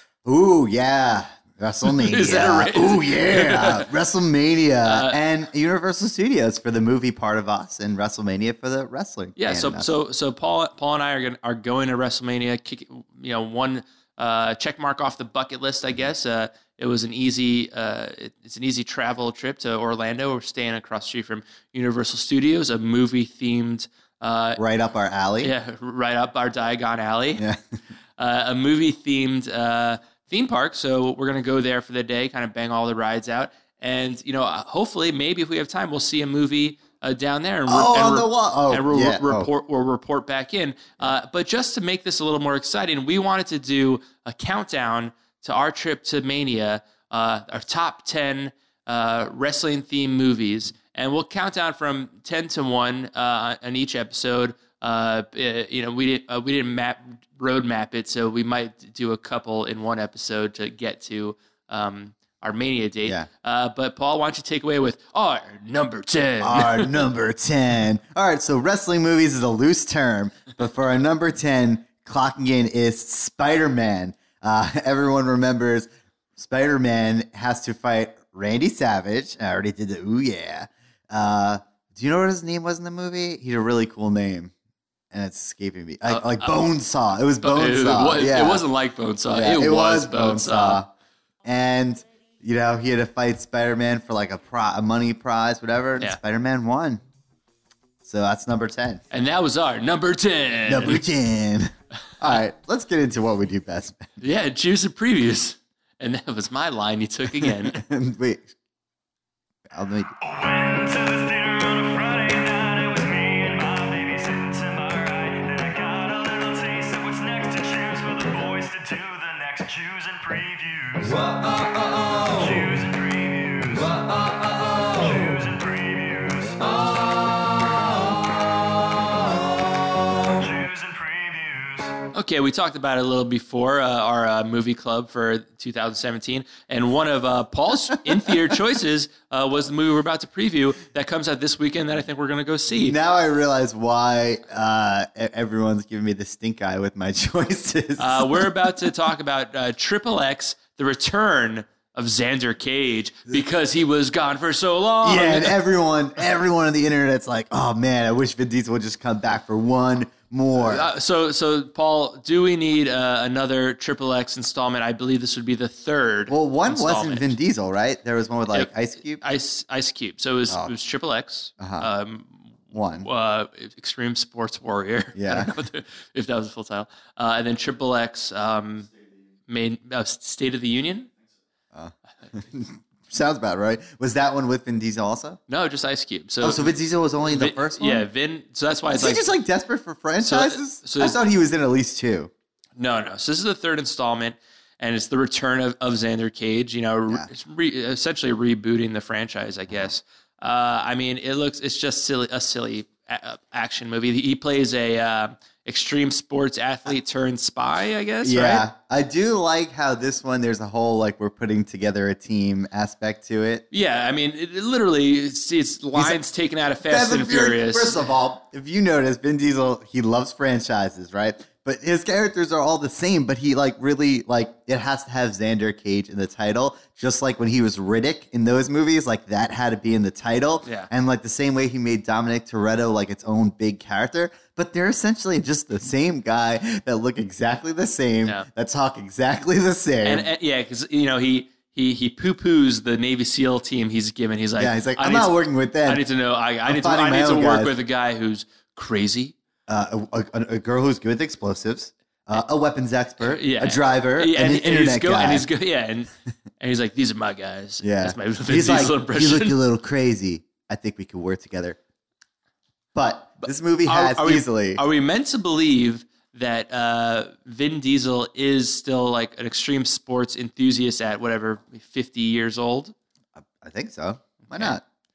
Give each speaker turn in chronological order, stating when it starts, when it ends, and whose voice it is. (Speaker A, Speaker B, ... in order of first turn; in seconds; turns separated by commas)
Speaker A: 0.2-9.9, Speaker B: 1.9-3.9, Speaker B: 4.8-5.2, Speaker B: 9.4-24.6, Speaker A: 24.6-25.5, Speaker B: 25.4-27.5, Speaker A: 27.4-27.6, Speaker B: 28.2-67.0, Speaker A: 37.7-39.5, Speaker A: 66.4-84.5, Speaker A: 85.1-88.6, Speaker B: 86.0-86.7, Speaker B: 87.4-90.8, Speaker A: 89.3-90.9, Speaker A: 91.5-97.0, Speaker A: 98.0-99.0, Speaker B: 99.1-101.1, Speaker A: 100.7-104.2, Speaker B: 104.2-107.8, Speaker A: 107.4-108.5, Speaker A: 109.7-110.1, Speaker C: 110.4-121.1, Speaker C: 122.6-124.2, Speaker C: 124.8-126.7, Speaker C: 130.5-131.9, Speaker B: 132.1-143.0, Speaker A: 142.8-148.5, Speaker B: 148.0-155.6, Speaker A: 155.0-160.9, Speaker B: 160.6-167.4, Speaker A: 166.3-169.2, Speaker B: 168.5-178.9, Speaker A: 170.5-170.7, Speaker A: 171.6-171.9, Speaker A: 172.7-173.1, Speaker A: 175.2-175.5, Speaker B: 179.5-181.1, Speaker A: 181.7-185.4, Speaker B: 185.5-189.3, Speaker A: 186.4-188.1, Speaker A: 188.9-192.3, Speaker B: 190.2-191.2, Speaker B: 192.8-208.7, Speaker A: 208.2-213.7, Speaker B: 213.7-218.0, Speaker A: 215.9-216.2, Speaker A: 216.8-240.3, Speaker B: 230.6-230.9, Speaker B: 240.0-249.3, Speaker A: 244.6-246.1, Speaker A: 246.7-247.7, Speaker A: 249.7-255.5, Speaker B: 253.2-259.6, Speaker A: 257.8-261.8, Speaker A: 262.9-264.8, Speaker B: 263.4-272.9, Speaker A: 273.4-274.8, Speaker B: 274.5-274.8